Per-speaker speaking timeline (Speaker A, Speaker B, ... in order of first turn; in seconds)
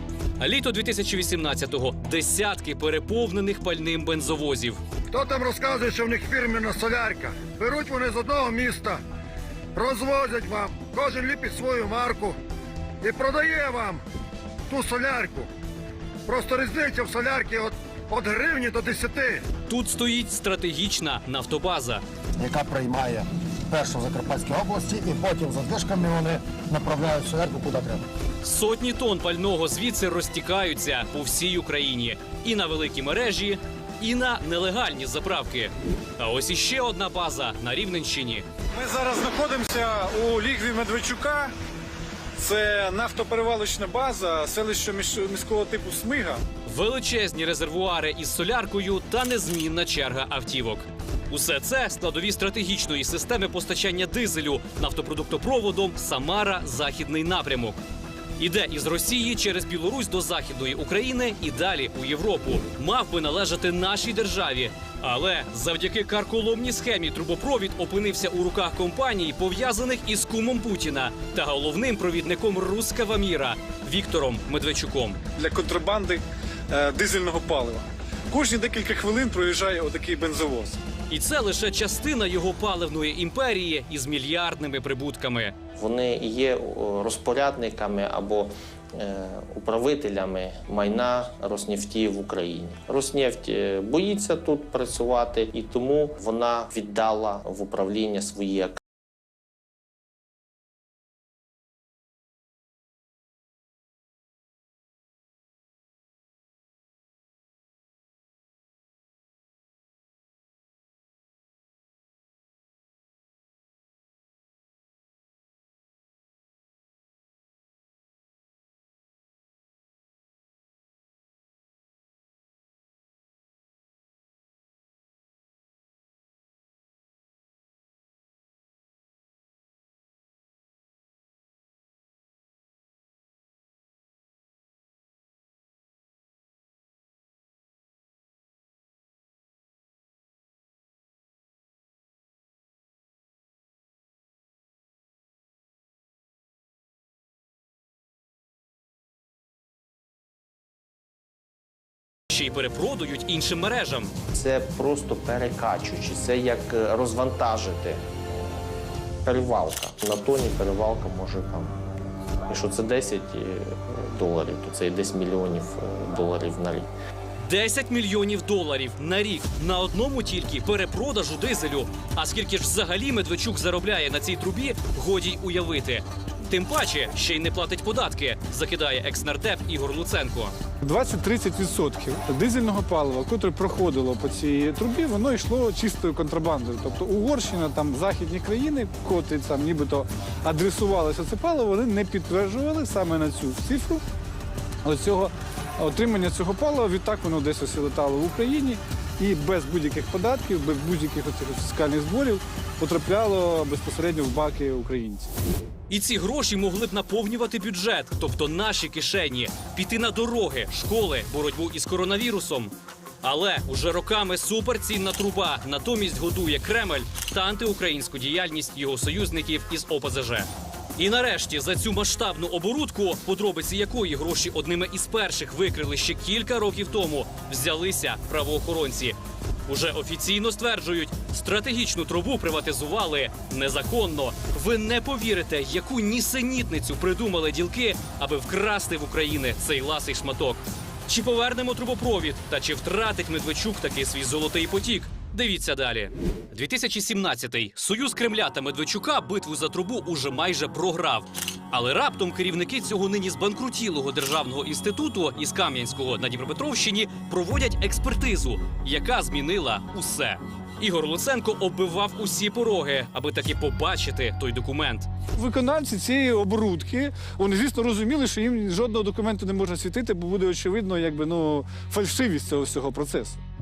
Speaker A: 0.4-4.8, 19.7-22.0, 28.4-38.5, 46.7-57.8, 58.4-75.2, 81.1-85.5, 152.3-154.1, 167.4-180.5, 205.9-265.1
Speaker B: 5.1-9.0, 9.8-12.4, 13.0-14.0, 14.7-15.5, 16.3-19.5
Speaker C: 22.4-28.1
Speaker D: 38.7-41.5, 42.4-46.4, 75.4-80.8, 180.8-194.0, 194.8-205.3, 265.4-273.4
Speaker E: 85.8-98.8, 154.3-158.0, 159.2-161.8, 162.5-166.9